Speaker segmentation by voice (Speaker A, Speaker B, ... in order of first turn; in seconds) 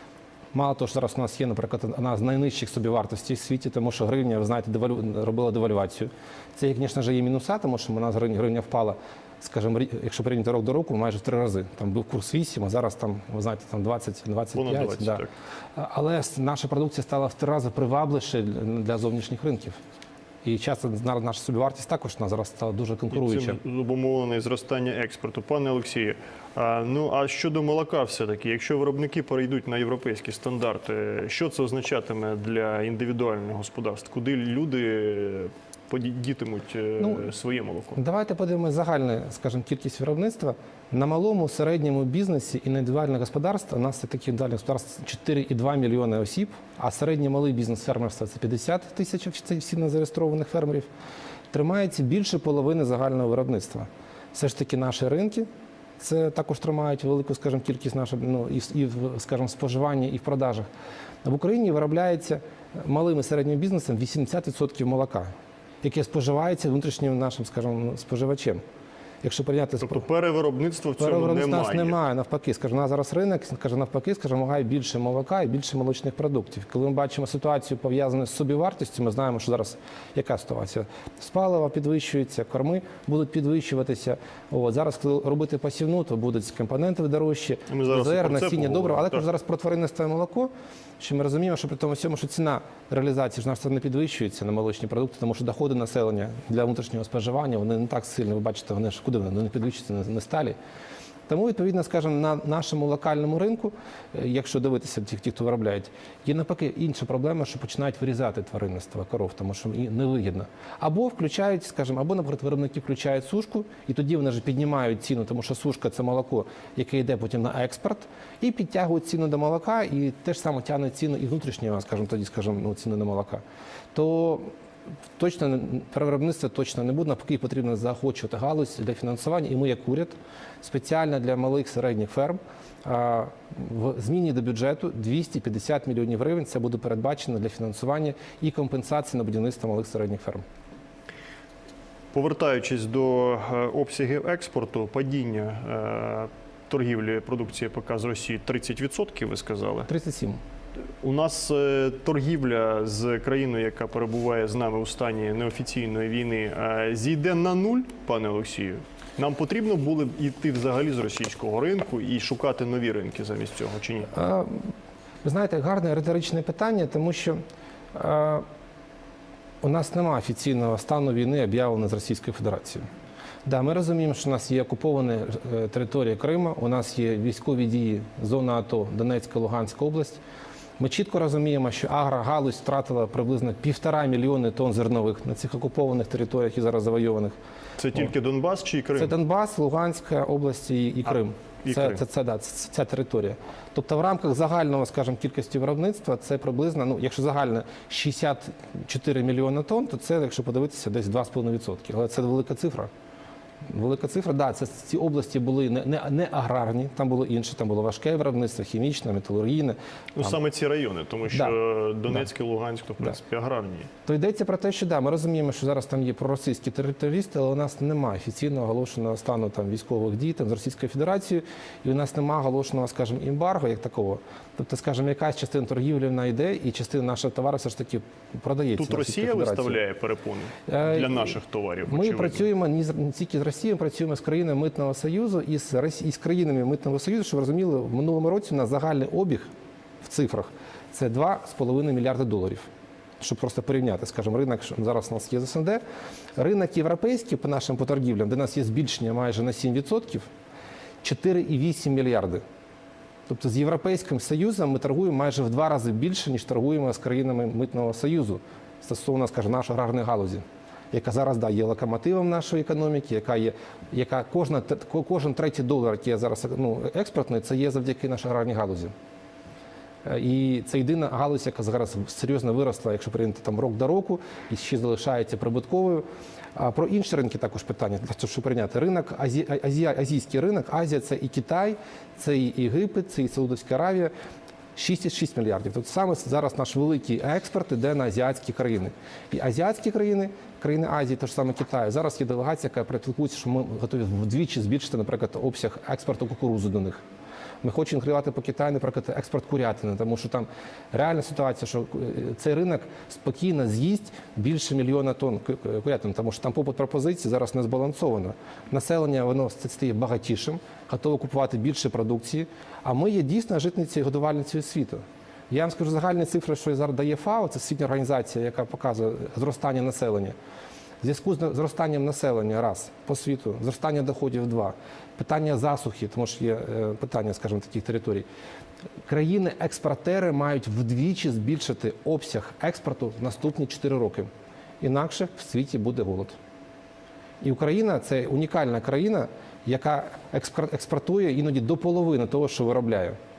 Speaker A: 0.5-15.2, 15.8-19.8, 20.4-23.6, 37.0-37.2, 38.0-50.9, 51.5-55.5, 56.0-60.7, 61.2-68.6, 69.2-70.0, 71.0-100.5, 101.3-123.4, 123.9-124.5, 125.2-140.4, 149.9-150.4, 164.1-164.7, 165.2-167.4, 167.9-168.4, 169.6-172.8, 173.4-180.2, 180.8-187.3, 188.9-202.9, 203.7-210.4, 214.1-229.8, 230.7-239.5, 240.0-242.7, 243.2-245.8, 246.3-250.3, 251.0-252.4, 253.3-268.9, 270.0-276.0, 276.6-284.1, 284.8-297.0, 297.6-320.4, 321.0-328.2, 329.1-334.3, 334.8-336.4, 337.4-343.2
Speaker B: 14.5-15.3, 23.1-38.0, 69.8-71.9, 87.7-89.2, 142.1-149.9, 151.0-164.1, 187.8-189.1, 191.1-192.0, 210.1-213.9, 228.8-232.4